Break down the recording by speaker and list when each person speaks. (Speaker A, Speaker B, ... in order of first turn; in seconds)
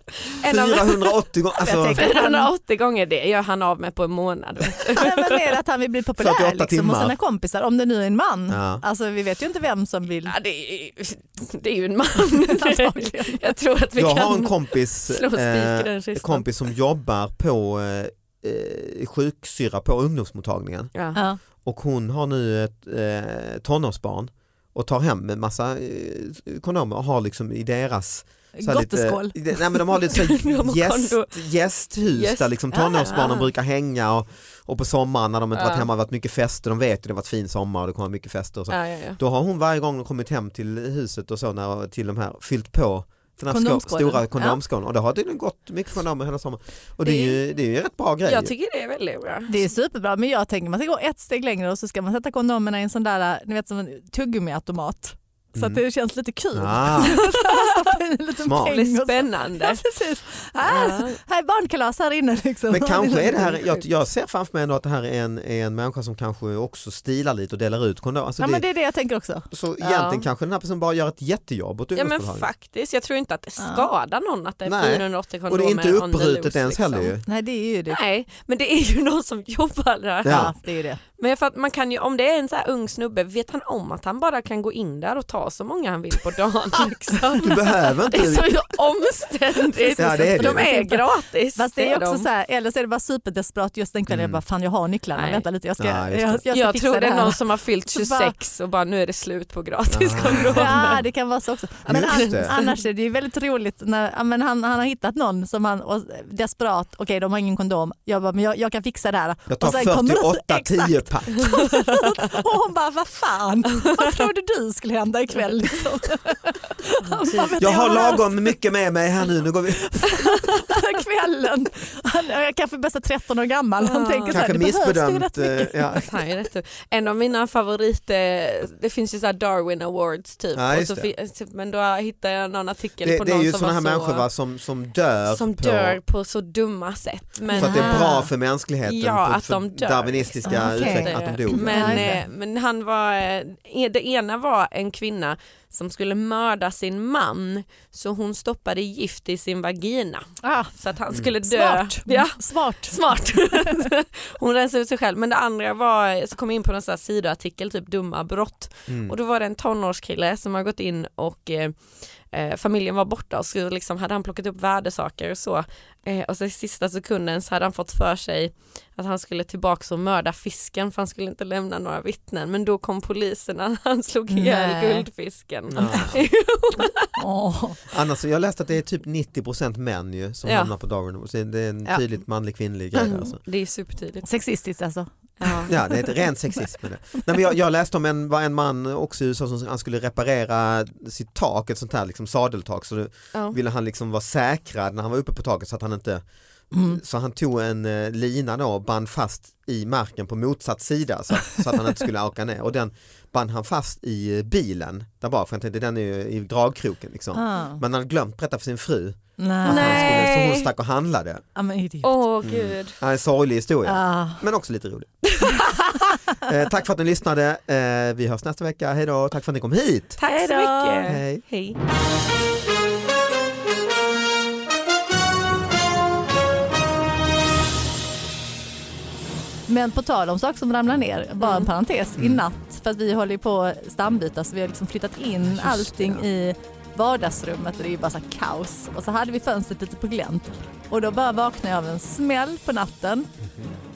Speaker A: 0.4-5.5, 10.3-16.5, 20.9-21.2, 30.1-31.4, 32.1-33.5, 35.5-35.9, 38.7-39.2, 47.0-47.4, 48.2-49.6, 57.0-57.9, 58.5-59.8, 60.6-61.2, 63.5-63.8, 69.8-70.3, 72.0-77.1, 77.9-80.5, 81.2-92.3, 95.2-95.4, 96.5-101.0, 102.1-102.7, 117.2-118.2, 123.8-124.5, 126.0-134.3, 135.3-138.3, 138.8-177.1, 180.4-180.7, 182.9-184.3, 185.4-185.7, 209.7-210.7, 212.0-213.0, 215.2-216.2, 220.2-221.8, 231.4-231.7
Speaker B: 0.4-2.1, 6.2-7.2, 8.5-8.8, 14.0-20.9, 21.6-48.5, 55.5-55.8, 56.5-57.2, 58.5-58.8, 62.7-68.7, 69.5-72.5, 74.7-77.2, 80.2-80.5, 87.4-88.6, 90.0-90.7, 94.1-94.4, 95.8-96.4, 99.9-100.9, 101.9-102.5, 109.5-111.7, 117.6-120.3, 124.3-126.1, 130.6-131.1, 133.0-136.0, 137.5-142.2, 158.9-159.1, 175.8-176.3, 177.9-183.4, 185.7-196.2, 196.8-211.4, 212.4-215.1, 216.4-220.2, 221.1-221.4, 232.2-232.4, 235.4-236.2, 243.4-243.7
Speaker C: 1.6-2.5, 5.0-10.3, 12.5-13.5, 21.1-21.4, 28.6-29.8, 43.5-44.6, 49.5-63.6, 68.4-69.5, 73.6-73.9, 77.3-78.0, 80.3-81.0, 89.8-98.3, 100.4-118.3, 119.9-126.1, 137.5-138.3, 140.5-142.2, 150.4-150.7, 151.4-153.8, 174.3-175.1, 175.8-176.1, 177.2-177.8, 184.2-186.3, 196.7-197.0, 207.3-207.8, 209.4-210.3, 211.6-212.2, 213.8-214.4, 220.3-221.1, 229.7-243.3